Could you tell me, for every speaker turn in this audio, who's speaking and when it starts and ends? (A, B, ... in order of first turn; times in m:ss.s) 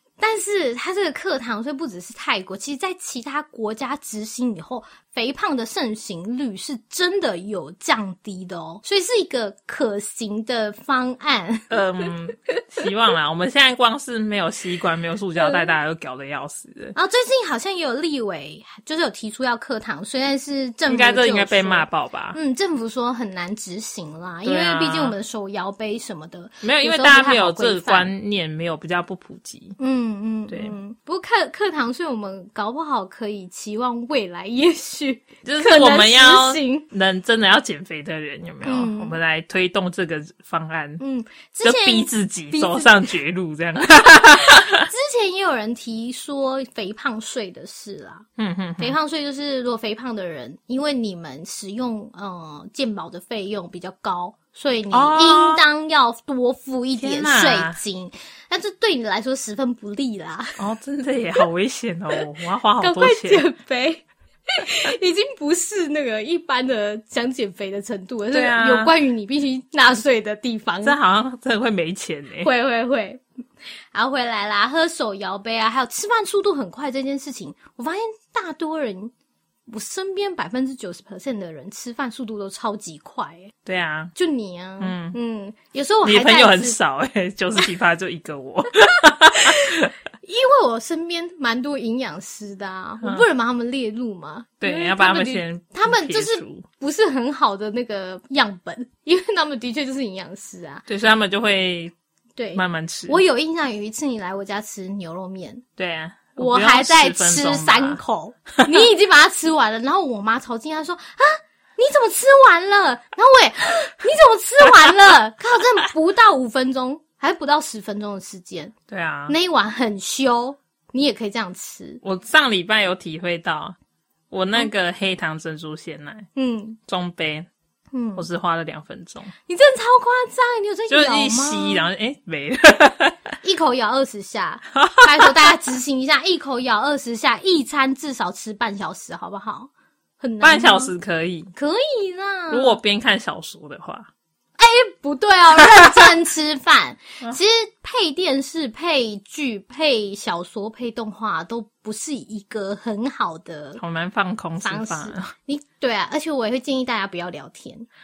0:00.2-0:11.8 A
0:11.7-0:16.9 B
0:16.9-0:28.1 A
0:20.9-0:22.4 B
0:24.4-0:25.2 B
0:26.6-0:29.8 B
0:29.8-0:36.8 A
0:30.5-0:30.8 B
0:35.4-0:41.0 B
0:38.6-0:39.2 A
0:41.0-0:43.0 A
0:41.6-0:44.9 B
0:44.4-0:48.3 A
0:48.4-0:49.0 B
0:48.8-1:00.6 A
0:54.9-0:55.6 B
0:57.0-0:57.8 B
1:00.6-1:03.4 B
1:02.8-1:11.0 A
1:08.3-1:08.9 B
1:10.8-1:12.5 B
1:12.4-1:13.2 A
1:13.9-1:19.1 A
1:19.7-1:23.5 A
1:23.6-1:24.1 B
1:24.1-1:26.8 A
1:24.8-1:25.2 B
1:26.0-1:29.9 B
1:29.4-1:40.9 A
1:34.6-1:36.6 B
1:40.9-1:41.9 B
1:42.4-1:45.6 A
1:42.5-1:43.2 B
1:45.8-1:48.0 B
1:46.4-1:58.7 A
1:48.6-1:48.8 B
1:58.9-1:59.4 B
1:59.3-2:02.0 A
2:02.0-2:03.8 B
2:04.3-2:06.3 B
2:06.3-2:06.8 A
2:06.9-2:07.5 B
2:07.9-2:08.2 A
2:08.2-2:09.3 B
2:09.5-2:11.8 A
2:10.9-2:13.3 B
2:13.4-2:20.9 A
2:14.7-2:15.6 B
2:20.4-2:21.5 B
2:21.5-2:22.8 A
2:22.5-2:24.1 B
2:24.6-2:33.8 A
2:33.8-2:35.3 B
2:34.6-2:37.9 A